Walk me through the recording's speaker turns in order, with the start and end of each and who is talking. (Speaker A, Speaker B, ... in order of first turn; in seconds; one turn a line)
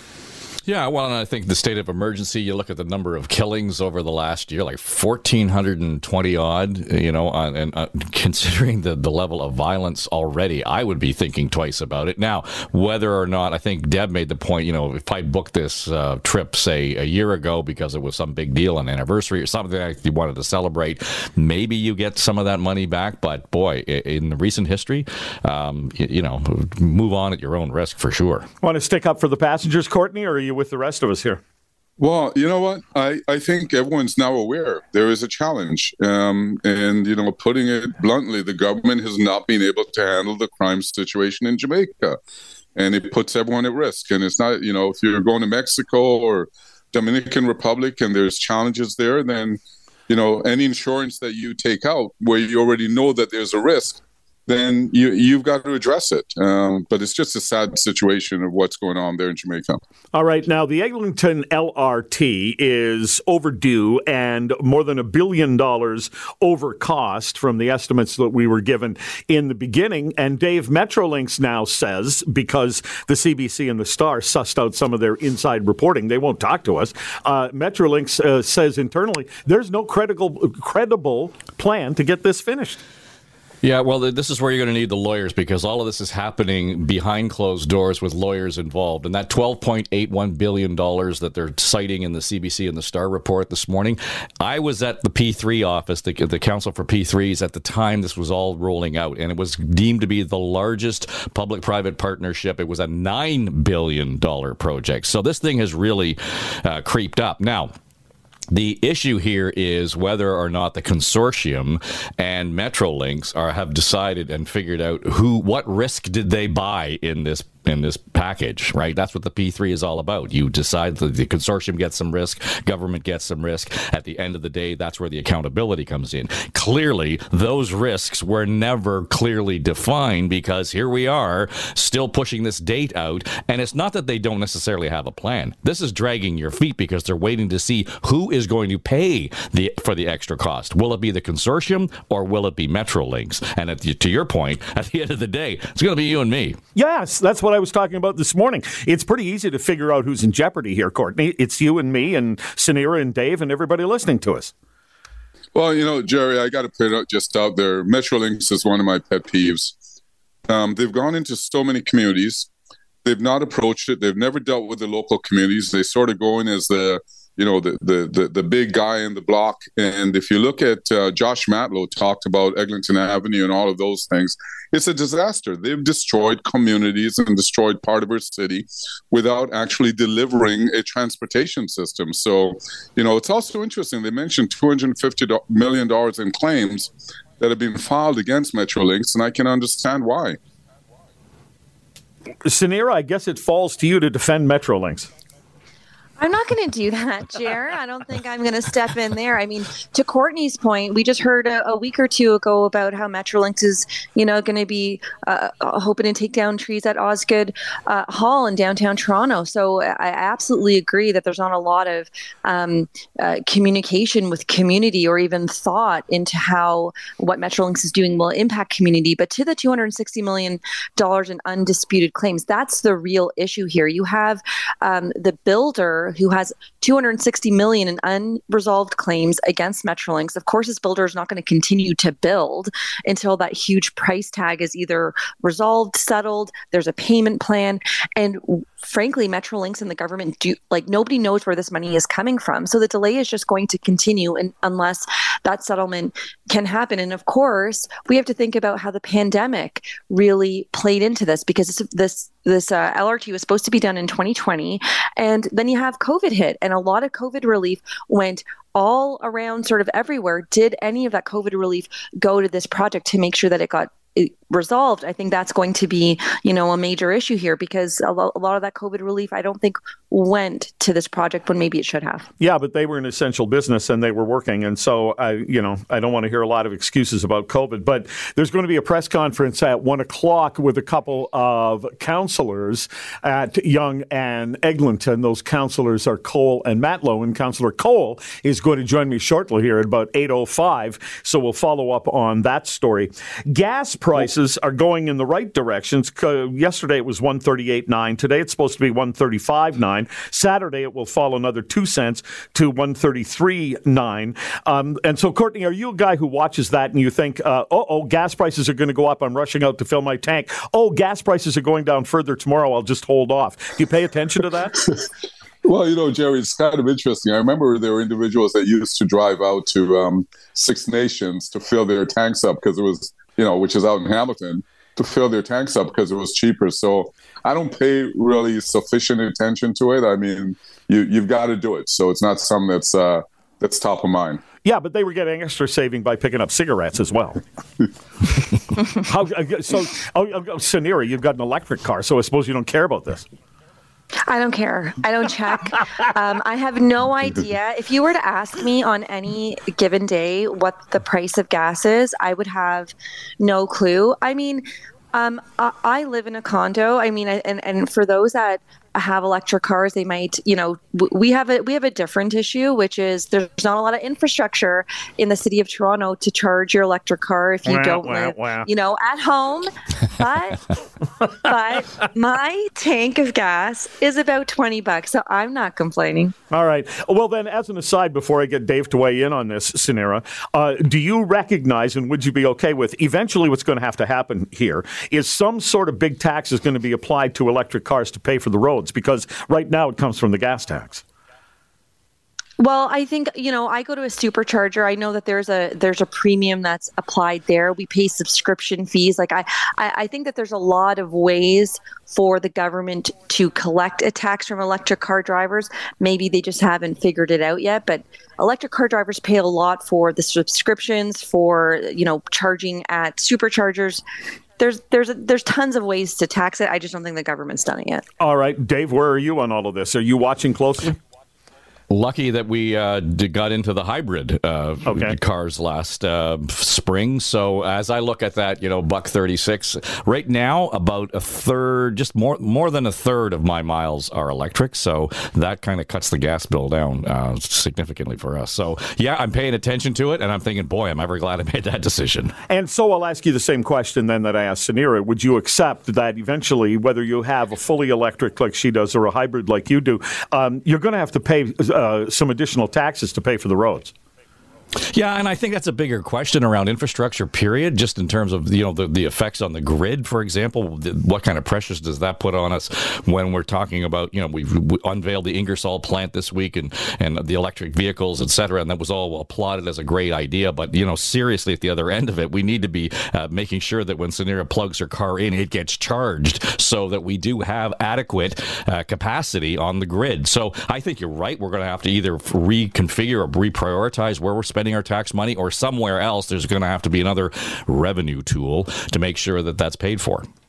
Speaker A: 0.6-28.5
Speaker B: 28.6-31.4
Speaker C: 32.0-42.2
Speaker C: 42.7-59.8
Speaker B: 60.1-82.8
Speaker A: 83.6-107.7
Speaker A: 108.5-146.6
Speaker B: 146.7-154.5
Speaker C: 155.5-159.7
Speaker C: 160.5-162.5
Speaker C: 163.0-190.4
Speaker B: 192.4-195.1
Speaker D: 196.2-272.3
Speaker B: 272.4-314.9
Speaker C: 315.6-334.4
Speaker B: 334.6-337.4
Speaker B: 338.9-343.2
Speaker D: 344.3-370.7
Speaker B: 367.6-368.7
Speaker D: 371.4-376.3
Speaker B: 376.5-391.0
Speaker D: 392.6-414.0
Speaker D: 414.6-418.0
Speaker B: 418.2-421.0
Speaker A: 421.9-442.3
Speaker B: 424.8-425.1
Speaker B: 442.5-453.9
Speaker A: 454.9-490.3